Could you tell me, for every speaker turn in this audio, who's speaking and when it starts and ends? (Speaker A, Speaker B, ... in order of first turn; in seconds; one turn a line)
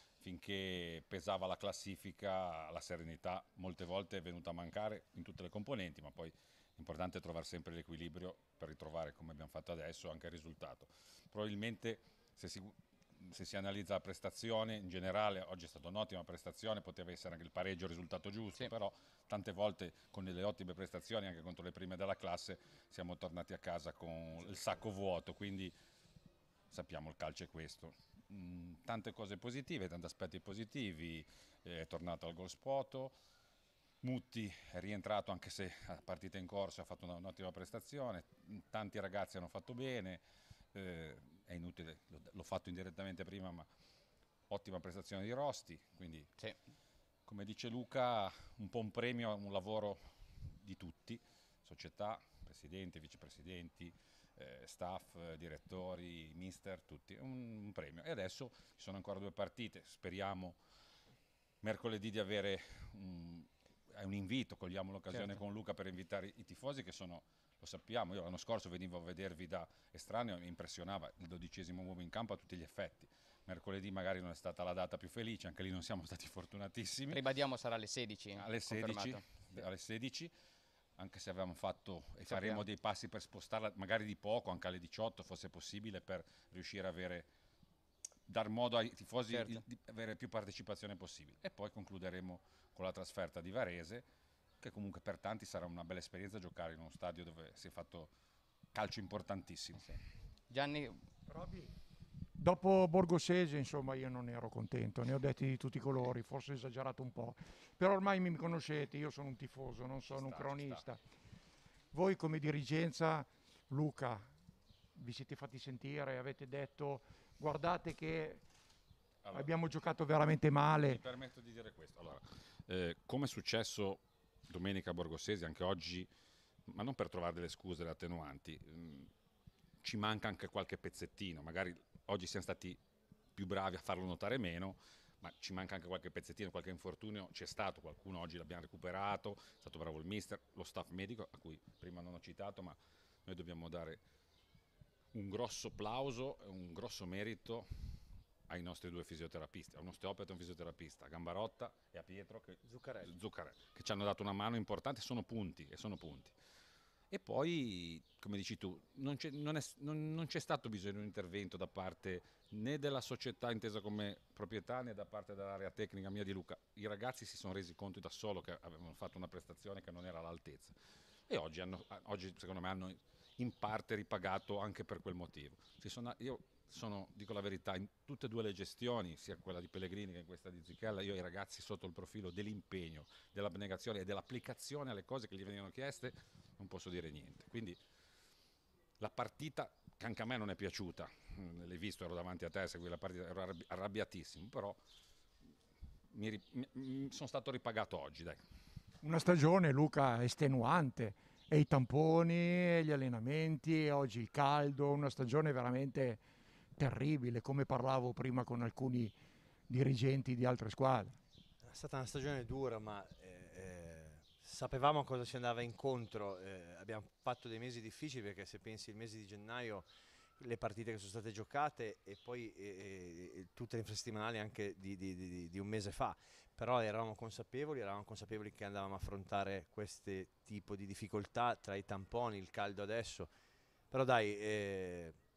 Speaker A: 0.2-25.7
Speaker A: 26.7-33.1
Speaker A: 34.0-40.2
Speaker A: 40.7-43.7
Speaker A: 44.5-46.3
Speaker A: 47.2-50.0
Speaker A: 50.6-60.6
Speaker A: 61.6-77.2
Speaker B: 77.1-79.6
Speaker A: 78.3-80.3
Speaker A: 81.0-87.3
Speaker B: 82.3-82.6
Speaker A: 88.3-94.1
Speaker B: 89.3-89.7
Speaker A: 94.6-98.1
Speaker A: 98.7-100.0
Speaker B: 100.5-101.0
Speaker C: 101.3-101.7
Speaker C: 102.4-111.0
Speaker A: 110.1-110.8
Speaker C: 111.9-114.3
Speaker C: 115.0-118.4
Speaker C: 119.3-121.0
Speaker A: 120.8-126.1
Speaker A: 126.7-129.1
Speaker A: 129.8-132.8
Speaker A: 133.3-144.0
Speaker A: 145.1-147.7
Speaker A: 148.5-156.3
Speaker D: 152.7-153.1
Speaker A: 157.1-170.8
Speaker A: 171.3-187.8
Speaker A: 189.0-194.8
Speaker A: 196.1-198.4
Speaker C: 199.0-206.2
Speaker C: 206.8-209.2
Speaker C: 209.7-211.2
Speaker D: 211.6-233.3
Speaker D: 233.9-235.2